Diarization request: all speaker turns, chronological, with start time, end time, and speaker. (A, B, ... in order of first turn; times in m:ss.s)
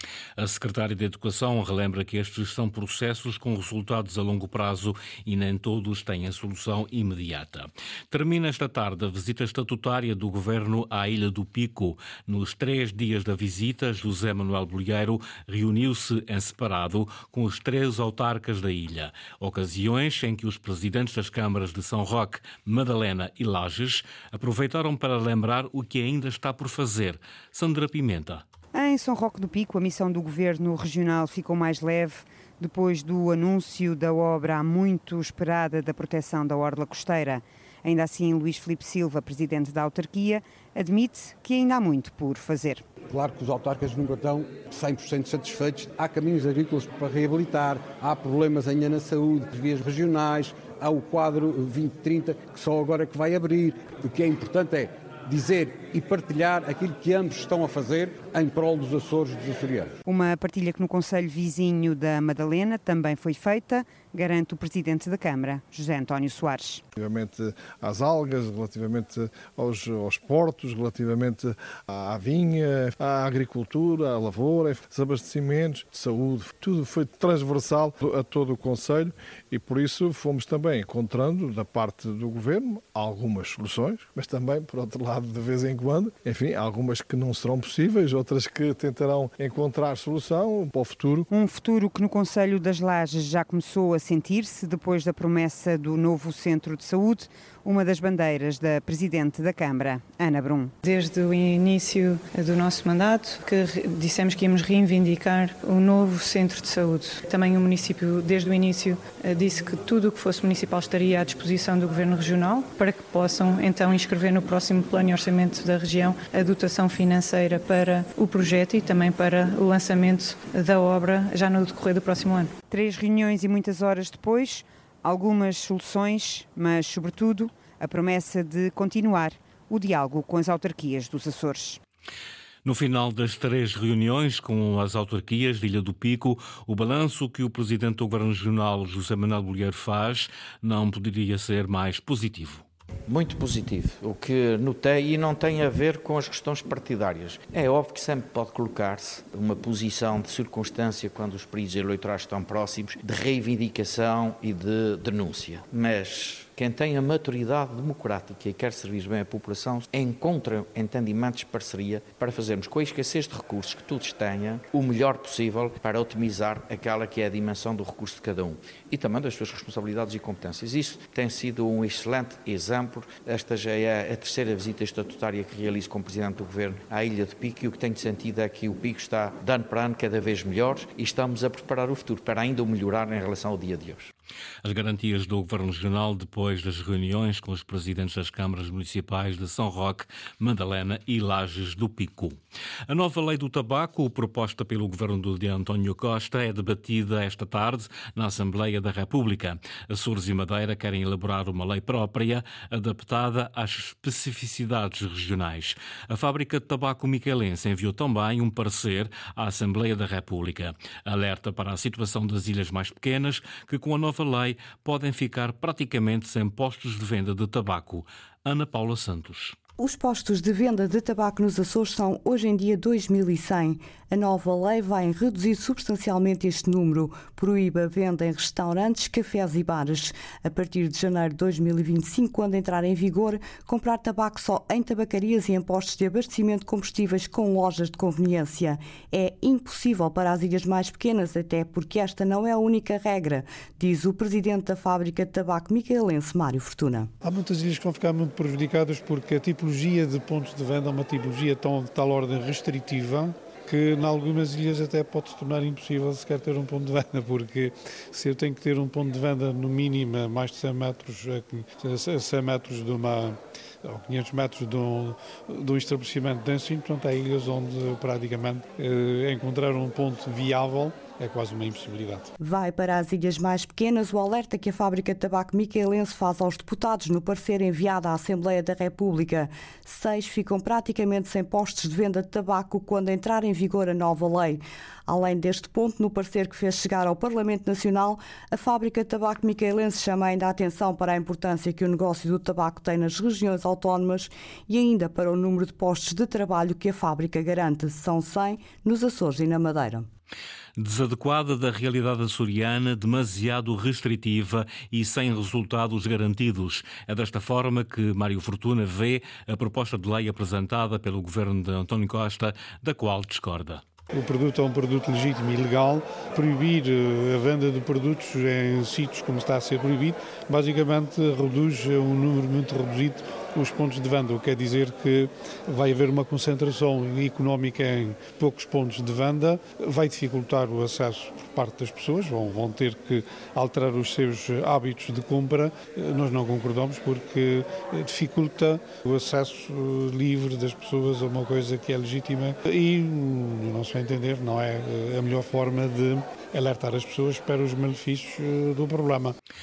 0:00.4-0:28.4 A
0:28.7-0:42.8 B
0:43.1-1:00.0 C
1:00.1-1:06.8 B
1:07.0-1:31.3 D
1:31.3-1:40.7 B
1:40.8-2:02.6 E
2:02.7-2:11.8 B
2:12.6-2:22.6 A
2:23.1-3:04.1 F
3:04.6-3:39.6 A
3:39.8-4:07.1 G
4:07.2-4:32.3 H
4:32.4-5:00.1 G
5:00.8-5:13.8 A
5:14.1-5:49.4 H